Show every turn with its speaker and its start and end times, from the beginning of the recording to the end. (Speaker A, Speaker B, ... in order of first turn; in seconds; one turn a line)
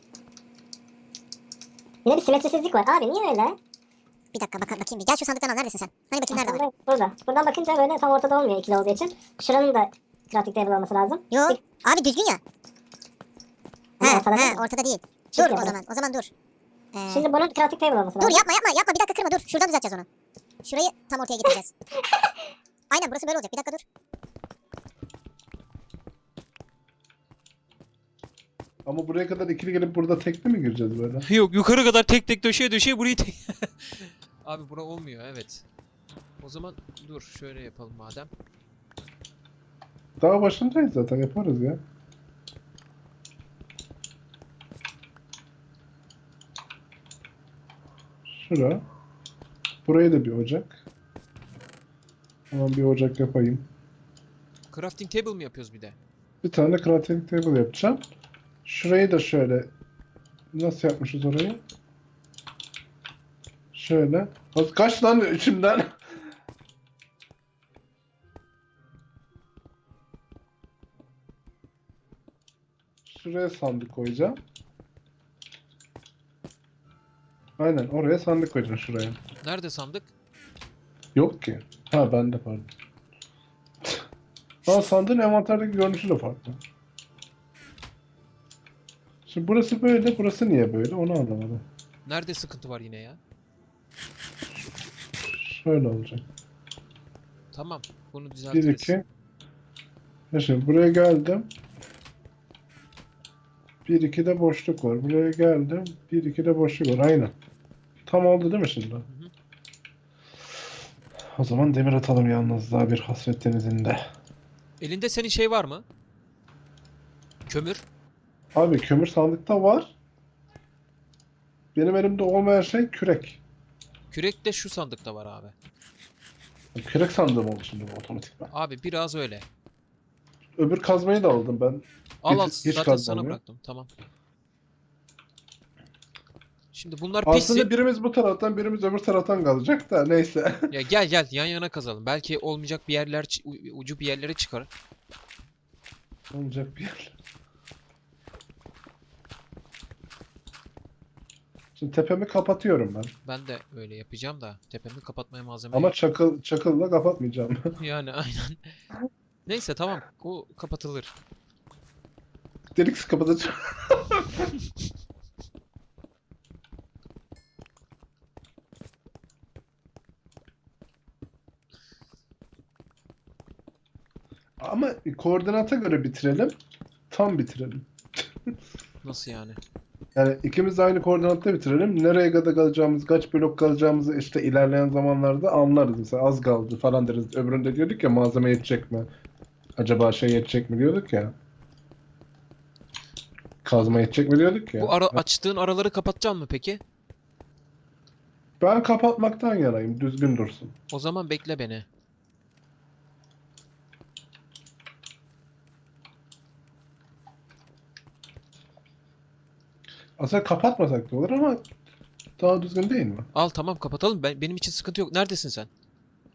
Speaker A: 2.0-3.6
Speaker B: 4.3-6.6
Speaker A: 6.3-11.6
Speaker B: 11.3-12.4
Speaker A: 14.0-14.7
Speaker B: 14.0-16.3
Speaker A: 15.3-15.8
Speaker B: 16.9-17.2
Speaker A: 17.1-18.4
Speaker B: 18.2-20.1
Speaker B: 20.6-21.7
Speaker B: 22.9-23.8
Speaker C: 28.9-31.2
Speaker D: 31.2-35.6
Speaker D: 36.4-38.3
Speaker C: 40.2-41.8
Speaker C: 48.3-48.8
Speaker C: 49.8-50.8
Speaker C: 52.5-53.7
Speaker D: 54.7-56.0
Speaker C: 56.4-58.1
Speaker C: 58.6-59.7
Speaker C: 60.5-61.6
Speaker C: 63.7-65.9
Speaker C: 73.0-74.4
Speaker C: 77.6-79.2
Speaker D: 79.4-80.1
Speaker C: 81.2-82.7
Speaker C: 84.7-86.7
Speaker C: 89.3-91.7
Speaker D: 92.1-93.2
Speaker C: 95.3-96.2
Speaker D: 97.5-99.0
Speaker C: 98.5-99.0
Speaker C: 100.3-101.5
Speaker C: 103.8-107.3
Speaker C: 108.1-109.1
Speaker D: 109.1-109.3
Speaker C: 111.3-114.0
Speaker D: 114.8-115.8
Speaker D: 117.5-117.8
Speaker C: 118.5-120.0
Speaker C: 121.8-123.4
Speaker D: 124.1-125.5
Speaker C: 126.7-128.5
Speaker D: 128.5-129.5
Speaker C: 130.6-133.4
Speaker D: 132.2-133.9
Speaker D: 136.7-137.7
Speaker C: 137.2-140.7
Speaker D: 140.7-144.7
Speaker C: 146.3-147.2
Speaker C: 151.8-153.1
Speaker D: 153.2-155.9
Speaker C: 155.7-157.8
Speaker D: 157.8-158.8
Speaker D: 159.4-161.1
Speaker C: 162.8-164.4
Speaker C: 174.6-176.6
Speaker C: 177.1-177.9
Speaker D: 179.0-179.6
Speaker C: 180.1-189.1
Speaker C: 189.8-191.3
Speaker C: 193.6-195.2
Speaker D: 194.8-196.8
Speaker C: 198.6-200.7
Speaker D: 200.9-201.9
Speaker C: 210.2-211.6
Speaker C: 212.4-213.3
Speaker D: 213.3-215.7